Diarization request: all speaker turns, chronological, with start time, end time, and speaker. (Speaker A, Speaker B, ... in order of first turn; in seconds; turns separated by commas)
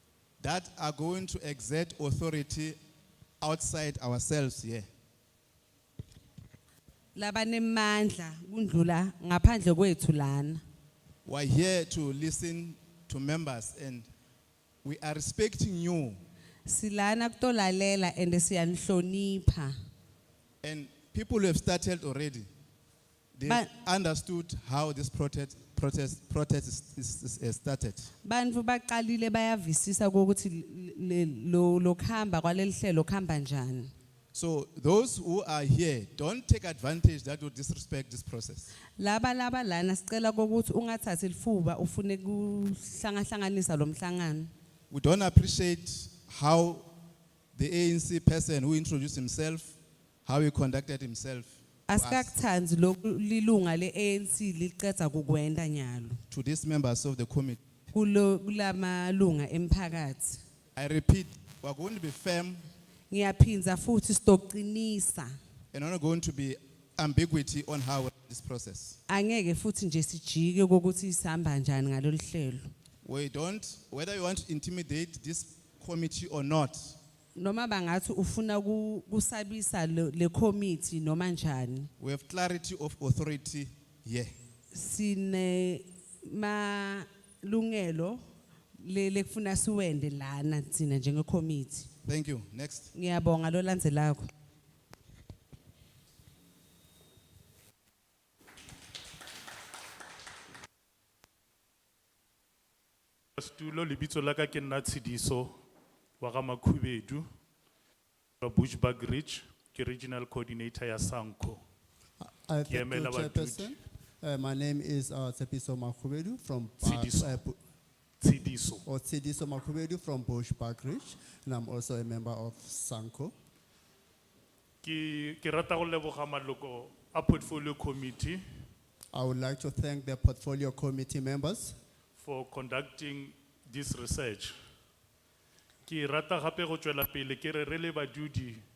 Speaker A: 0.4-2.8, Speaker A: 3.4-4.9, Speaker B: 7.1-10.6, Speaker A: 11.2-14.1, Speaker A: 14.8-16.2, Speaker B: 16.6-19.7, Speaker A: 20.6-22.5, Speaker A: 23.3-28.1, Speaker B: 28.2-33.9, Speaker A: 34.3-38.7, Speaker B: 39.0-44.5, Speaker A: 44.9-46.9, Speaker A: 47.5-52.3, Speaker B: 51.9-56.2, Speaker A: 56.3-57.6, Speaker B: 57.9-60.4, Speaker A: 60.8-62.6, Speaker B: 63.1-65.3, Speaker A: 65.7-69.0, Speaker B: 69.1-72.7, Speaker A: 73.0-77.0, Speaker B: 77.3-81.9, Speaker A: 82.0-84.3, Speaker B: 84.7-88.2, Speaker B: 88.8-91.9, Speaker A: 92.0-92.9, Speaker B: 92.9-94.3, Speaker C: 103.4-105.5, Speaker C: 106.2-107.2, Speaker C: 108.4-111.6, Speaker D: 112.2-117.6, Speaker C: 112.7-113.7, Speaker C: 116.8-117.4, Speaker C: 118.2-118.8, Speaker D: 118.8-123.3, Speaker C: 124.8-128.4, Speaker D: 129.1-131.8, Speaker C: 132.2-134.5, Speaker C: 135.8-138.6